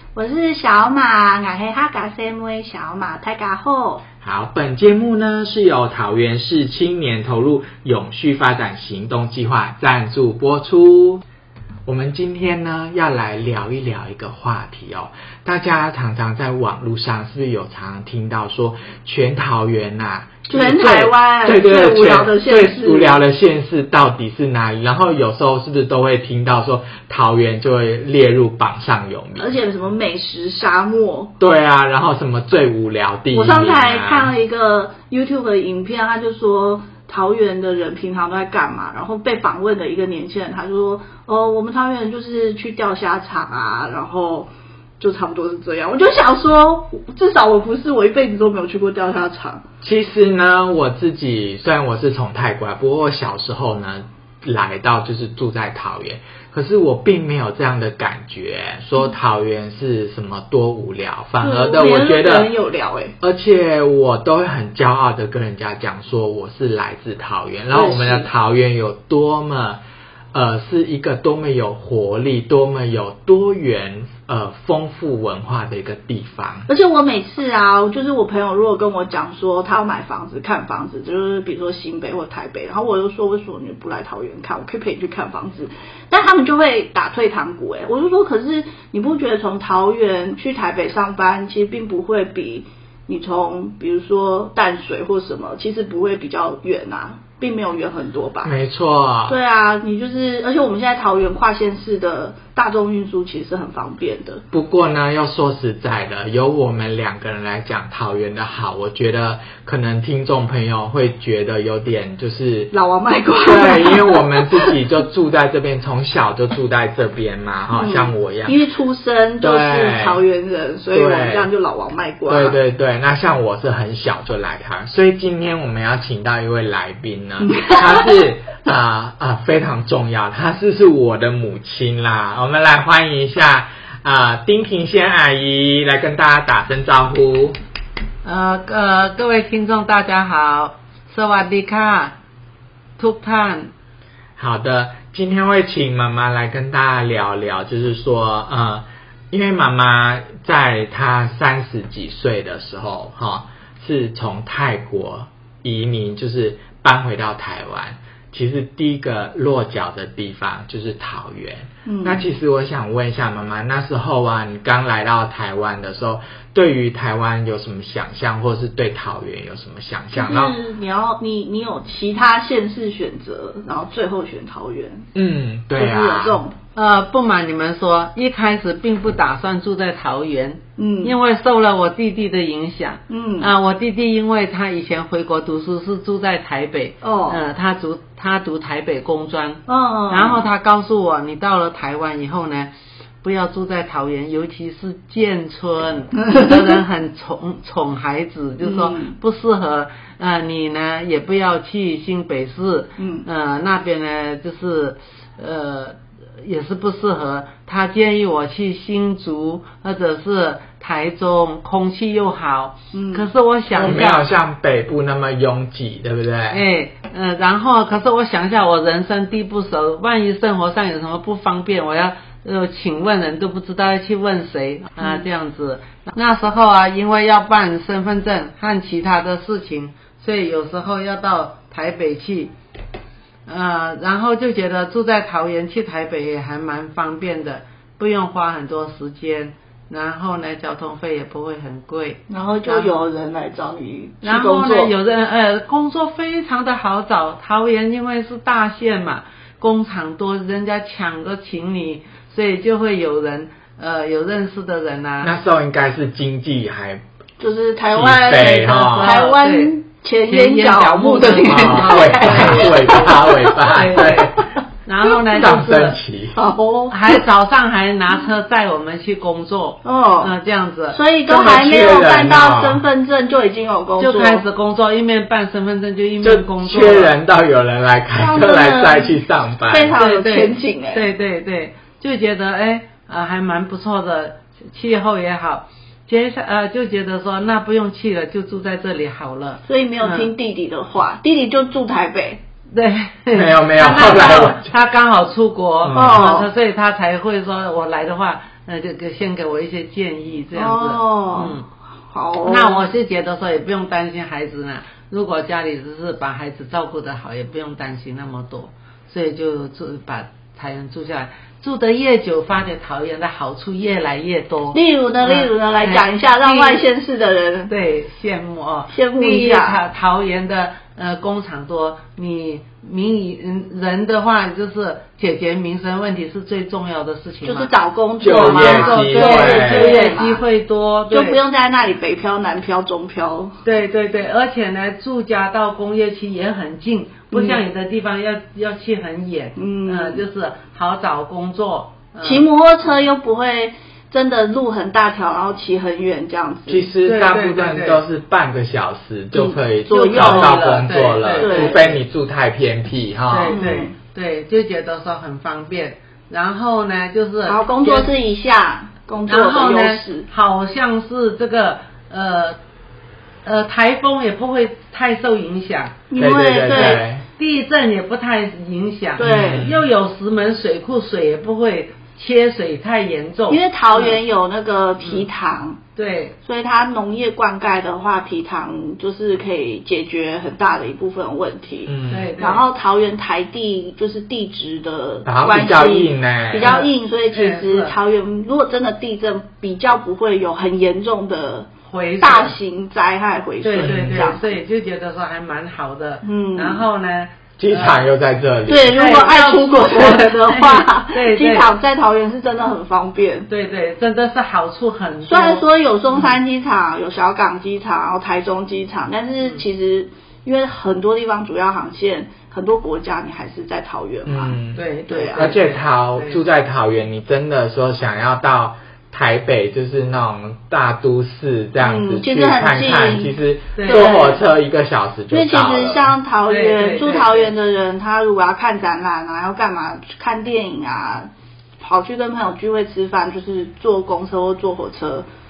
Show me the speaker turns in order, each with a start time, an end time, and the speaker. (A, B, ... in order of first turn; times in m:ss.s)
0:00.1-0:04.0 A
0:04.2-0:11.2 B
0:11.8-0:29.6 B
0:20.5-0:23.2 A
0:29.4-0:31.3 A
0:31.4-0:34.3 B
0:33.3-0:49.6 A
0:49.8-1:02.5 B
1:01.4-1:03.2 A
1:03.2-1:09.8 B
1:07.7-1:08.2 A
1:10.3-1:16.7 B
1:16.7-1:38.5 A
1:38.4-1:39.4 B
1:39.3-1:44.4 A
1:44.5-1:52.7 B
1:52.7-1:54.8 A
1:53.4-1:58.6 B
1:57.7-2:02.6 A
1:59.4-2:00.2 B
2:00.9-2:01.5 B
2:02.3-2:17.6 B
2:07.4-2:08.2 A
2:18.2-2:22.2 C
2:23.0-2:23.7 C
2:24.4-2:50.5 B
2:41.8-2:42.2 A
2:50.1-2:55.0 A
2:55.1-2:56.4 B
2:55.8-2:56.6 A
2:56.7-3:34.2 C
3:00.8-3:01.2 A
3:03.1-3:03.5 A
3:07.0-3:07.4 A
3:09.7-3:10.4 A
3:16.2-3:16.6 A
3:18.6-3:19.2 A
3:23.0-3:23.2 A
3:32.9-3:33.3 A
3:33.8-3:36.6 B
3:36.5-3:52.5 C
3:53.5-4:03.0 C
4:02.3-4:04.9 A
4:04.2-4:15.3 C
4:15.2-4:17.0 B
4:17.4-4:23.6 A
4:17.9-4:19.2 B
4:18.4-4:24.2 C
4:21.2-4:24.5 B
4:24.8-4:26.0 C
4:25.2-4:26.4 B
4:26.3-4:27.2 A
4:26.9-4:31.0 C
4:29.8-4:30.3 A
4:30.9-4:34.4 A
4:31.3-4:32.8 B
4:34.0-4:37.1 C
4:36.2-4:40.0 B
4:38.2-4:41.0 A
4:39.9-4:50.3 C
4:49.7-4:52.4 A
4:52.7-5:01.6 C
4:53.3-4:54.7 B
4:55.8-4:56.3 B
4:55.9-4:56.5 A
5:00.5-5:01.6 A
5:02.1-5:02.8 A
5:02.4-5:16.8 C
5:14.7-5:17.7 A
5:17.7-5:27.7 C
5:18.9-5:19.8 A
5:27.4-5:30.4 A
5:28.2-5:30.1 B
5:28.2-5:31.4 C
5:31.1-5:33.6 A
5:33.6-5:42.4 C
5:37.3-5:37.6 A
5:39.6-5:40.2 A
5:42.2-5:46.9 A
5:46.7-5:53.6 B
5:47.0-5:48.0 C
5:49.3-5:50.7 A
5:49.9-5:52.0 C
5:51.3-5:51.9 A
5:53.3-5:58.1 C
5:53.5-5:53.9 A
5:57.5-6:00.3 A
5:59.3-6:02.6 C
6:03.4-6:06.0 C
6:06.1-6:07.0 A
6:06.2-6:07.2 B
6:06.7-6:14.2 C
6:09.2-6:09.7 A
6:09.2-6:09.8 B
6:13.5-6:15.8 A
6:16.0-6:16.4 C
6:16.4-6:34.5 A
6:21.9-6:22.3 B
6:22.1-6:22.6 C
6:25.2-6:26.7 B
6:26.6-6:27.9 C
6:31.9-6:32.6 C
6:33.6-6:38.1 C
6:33.8-6:34.3 B
6:36.2-6:36.8 A
6:37.6-6:39.0 B
6:38.7-6:43.5 A
6:38.9-6:41.7 C
6:43.5-6:46.4 C
6:45.2-6:55.5 A
6:54.2-6:54.8 B
6:54.7-6:56.4 C
6:55.3-7:06.1 B
7:01.8-7:03.3 A
7:03.8-7:04.4 C
7:03.8-7:04.4 A
7:05.3-7:15.2 A
7:06.5-7:07.5 C